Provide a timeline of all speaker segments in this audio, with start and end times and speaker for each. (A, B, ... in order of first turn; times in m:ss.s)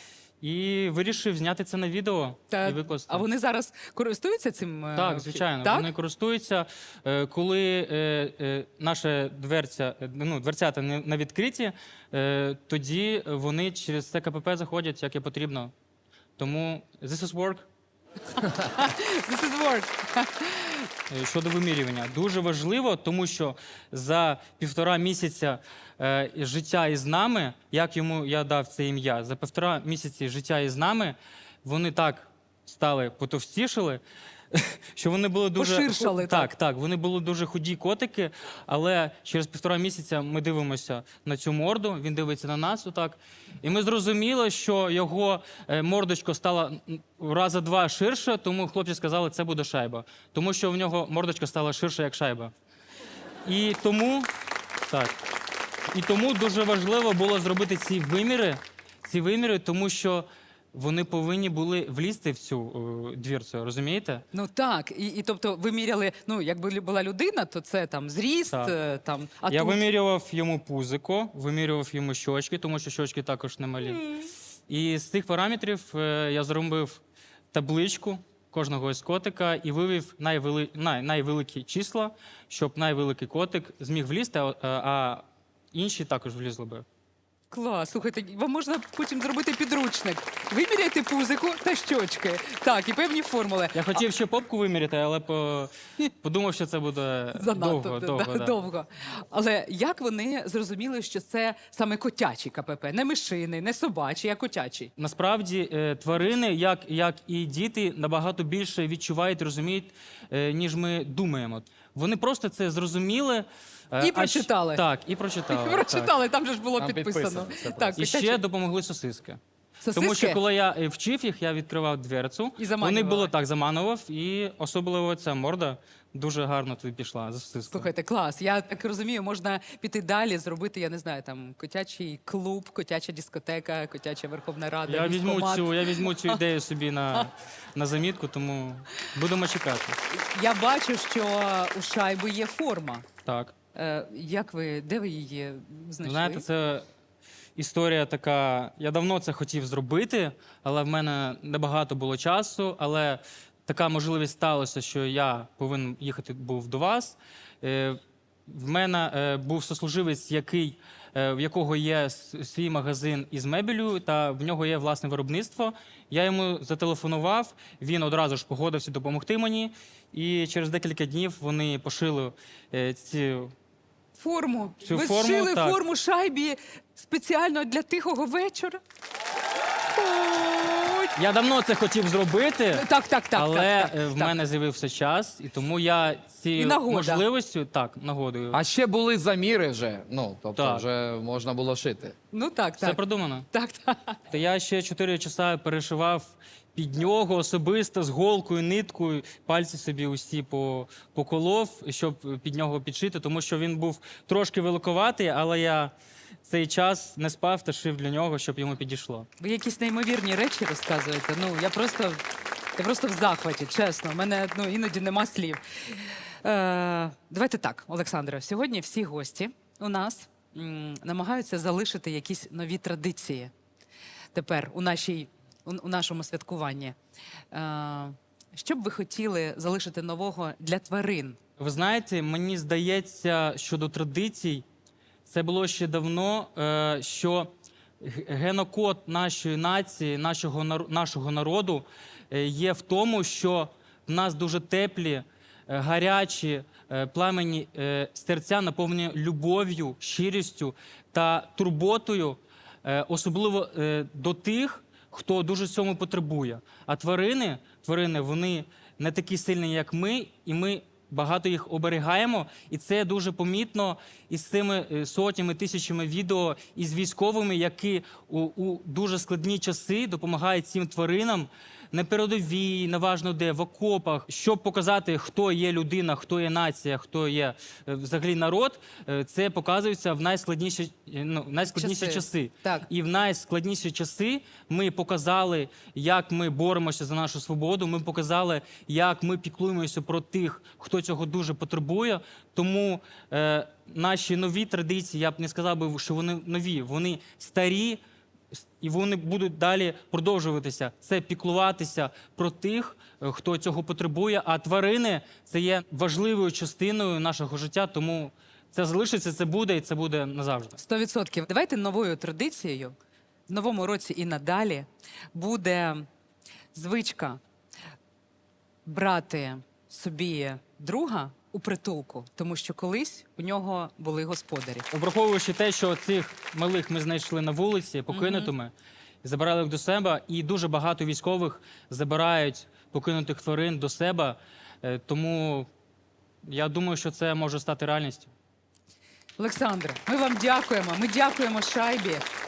0:00.4-0:03.2 A
0:02.5-0:05.9 B
0:04.9-0:15.7 A
0:16.4-0:17.7 A
0:18.4-0:20.9 B
0:21.1-0:52.5 A
0:35.6-0:36.5 B
0:53.4-0:54.3 A
0:54.9-0:55.2 A
0:55.9-1:04.2 A
1:04.3-1:09.8 B
1:09.5-1:17.0 A
1:17.5-1:26.8 A
1:27.5-1:34.0 B
1:33.7-1:38.6 A
1:37.3-1:44.9 B
1:45.0-1:56.1 A
1:54.0-1:54.8 B
1:55.5-1:58.4 B
1:56.8-1:58.0 C
1:58.0-1:59.4 A
1:59.8-2:00.4 B
1:59.9-2:07.9 A
2:02.6-2:03.3 B
2:07.7-2:16.4 B
2:14.8-2:20.0 A
2:20.1-2:23.1 B
2:23.2-2:23.5 A
2:23.7-2:26.4 B
2:26.0-2:26.8 A
2:27.6-2:53.5 A
2:54.1-2:58.8 B
2:54.8-2:55.8 A
2:59.9-3:01.1 B
3:01.1-3:08.6 A
3:02.7-3:04.3 B
3:06.6-3:07.2 B
3:08.5-3:12.1 C
3:10.5-3:10.9 A
3:12.3-3:13.0 B
3:12.8-3:13.5 A
3:13.5-3:14.2 B
3:14.3-3:25.9 A
3:26.4-3:29.3 A
3:29.4-3:32.2 B
3:32.8-3:43.5 B
3:44.3-3:47.0 B
3:47.5-3:51.4 B
3:51.6-3:54.6 A
3:55.2-4:58.0 A
4:41.7-4:42.9 B
4:58.5-5:10.8 A
5:10.8-5:13.0 B
5:13.5-5:16.1 B
5:16.7-5:17.4 B
5:18.8-5:24.9 B
5:24.9-5:35.7 A
5:28.1-5:28.5 B
5:36.4-5:38.3 A
5:39.4-5:42.2 B